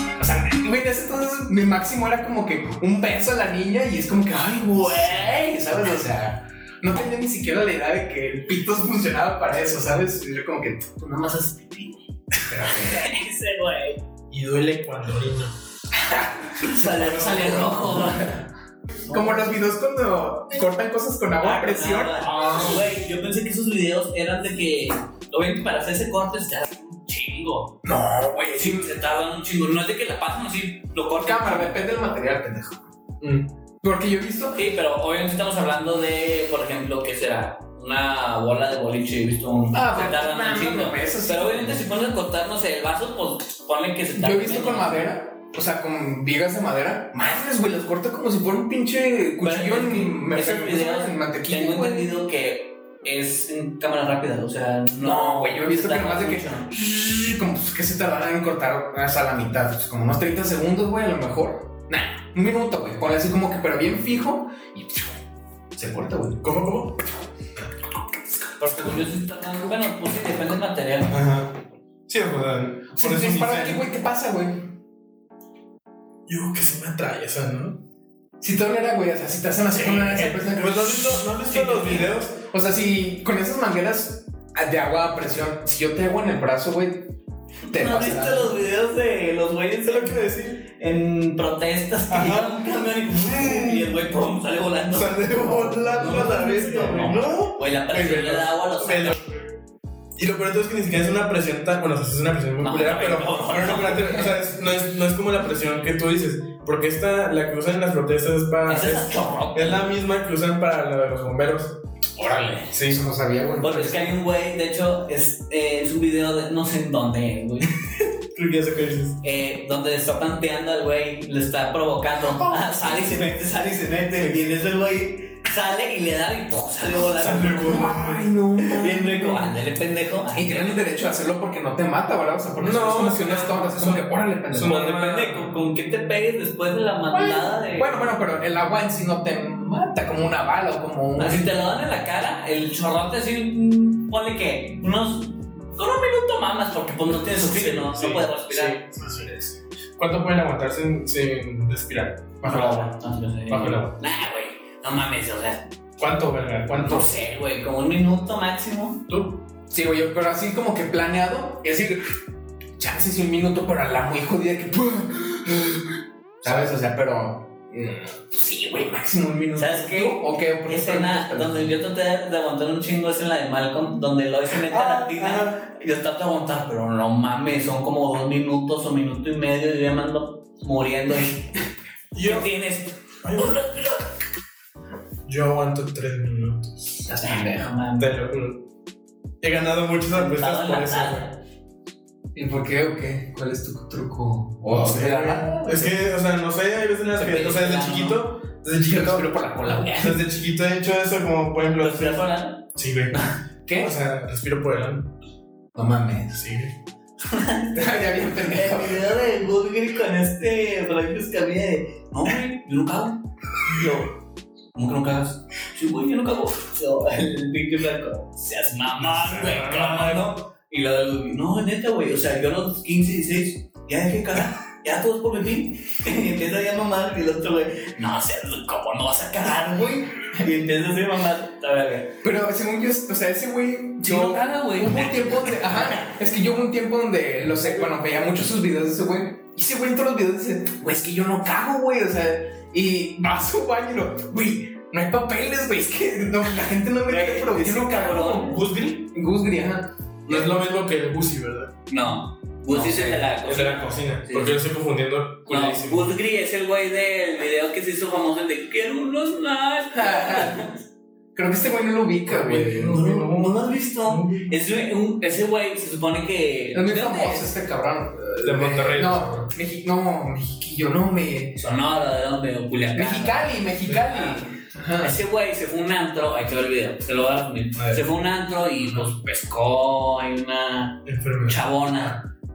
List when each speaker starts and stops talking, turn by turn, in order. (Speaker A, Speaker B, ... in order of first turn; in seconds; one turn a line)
Speaker A: 0.2-13.1
Speaker B: 12.8-14.0
Speaker C: 14.3-15.5
Speaker A: 15.9-18.4
Speaker B: 16.6-18.4
Speaker B: 19.1-19.7
Speaker A: 19.1-22.9
Speaker B: 21.4-27.7
Speaker A: 27.8-28.9
Speaker B: 28.6-31.8
Speaker A: 31.2-32.9
Speaker A: 33.8-34.6
Speaker B: 34.5-45.0
Speaker A: 39.7-41.8
Speaker A: 44.1-52.1
Speaker B: 49.4-56.7
Speaker A: 55.0-65.2
Speaker A: 65.8-66.4
Speaker C: 66.4-67.0
Speaker B: 68.6-71.2
Speaker C: 71.1-71.6
Speaker C: 72.1-73.8
Speaker A: 73.0-74.7
Speaker C: 76.3-77.8
Speaker A: 78.4-87.1
Speaker C: 79.7-82.4
Speaker B: 81.5-82.0
Speaker B: 87.7-99.2
Speaker A: 87.7-88.5
Speaker C: 89.8-90.7
Speaker C: 92.1-94.0
Speaker C: 94.9-99.5
Speaker A: 95.4-97.2
Speaker C: 100.2-111.8
Speaker B: 102.6-104.3
Speaker B: 108.7-109.8
Speaker A: 112.2-114.1
Speaker C: 112.7-113.0
Speaker B: 113.6-117.7
Speaker C: 118.3-119.2
Speaker B: 119.2-127.9
Speaker A: 122.3-122.7
Speaker C: 127.0-128.3
Speaker A: 127.6-129.6
Speaker B: 128.6-130.8
Speaker A: 130.3-134.9
Speaker C: 132.6-135.5
Speaker B: 134.6-138.0
Speaker A: 137.1-141.6
Speaker B: 141.2-149.5
Speaker C: 147.1-149.3
Speaker C: 150.0-152.9
Speaker B: 152.4-155.7
Speaker C: 153.5-153.9
Speaker C: 156.0-157.1
Speaker B: 156.7-159.0
Speaker C: 159.1-159.4
Speaker A: 159.7-162.0
Speaker A: 162.8-165.9
Speaker A: 166.4-171.7
Speaker C: 166.4-166.7
Speaker B: 169.6-181.6
Speaker C: 174.7-175.6
Speaker C: 182.1-182.5
Speaker B: 182.2-184.1
Speaker C: 183.2-183.6
Speaker C: 185.2-187.1
Speaker B: 187.1-188.1
Speaker A: 187.1-187.7
Speaker C: 188.0-188.6
Speaker C: 189.4-191.3
Speaker B: 190.1-191.3
Speaker A: 192.3-195.9
Speaker C: 194.7-203.2
Speaker B: 195.5-195.9
Speaker B: 197.1-198.2
Speaker A: 198.8-200.2
Speaker B: 201.8-203.3
Speaker A: 203.7-203.9
Speaker C: 203.8-205.1
Speaker A: 205.8-206.4
Speaker C: 206.3-206.7
Speaker B: 207.2-214.1
Speaker A: 207.8-209.2
Speaker B: 214.7-232.2
Speaker C: 219.0-220.3
Speaker A: 232.2-248.6
Speaker B: 234.0-236.1
Speaker B: 247.1-248.6
Speaker C: 248.5-249.1
Speaker A: 249.1-250.5
Speaker C: 250.3-251.7
Speaker B: 251.9-254.6
Speaker A: 252.7-253.2
Speaker C: 253.4-256.2
Speaker B: 255.5-260.8
Speaker A: 259.9-260.6
Speaker A: 261.4-263.2
Speaker C: 262.3-264.5
Speaker B: 262.9-267.5
Speaker A: 266.7-271.6
Speaker C: 268.4-269.5
Speaker B: 271.6-273.5
Speaker A: 272.9-275.2
Speaker C: 273.9-274.1
Speaker B: 275.0-282.2
Speaker C: 277.8-278.0
Speaker C: 278.8-279.1
Speaker C: 281.1-282.2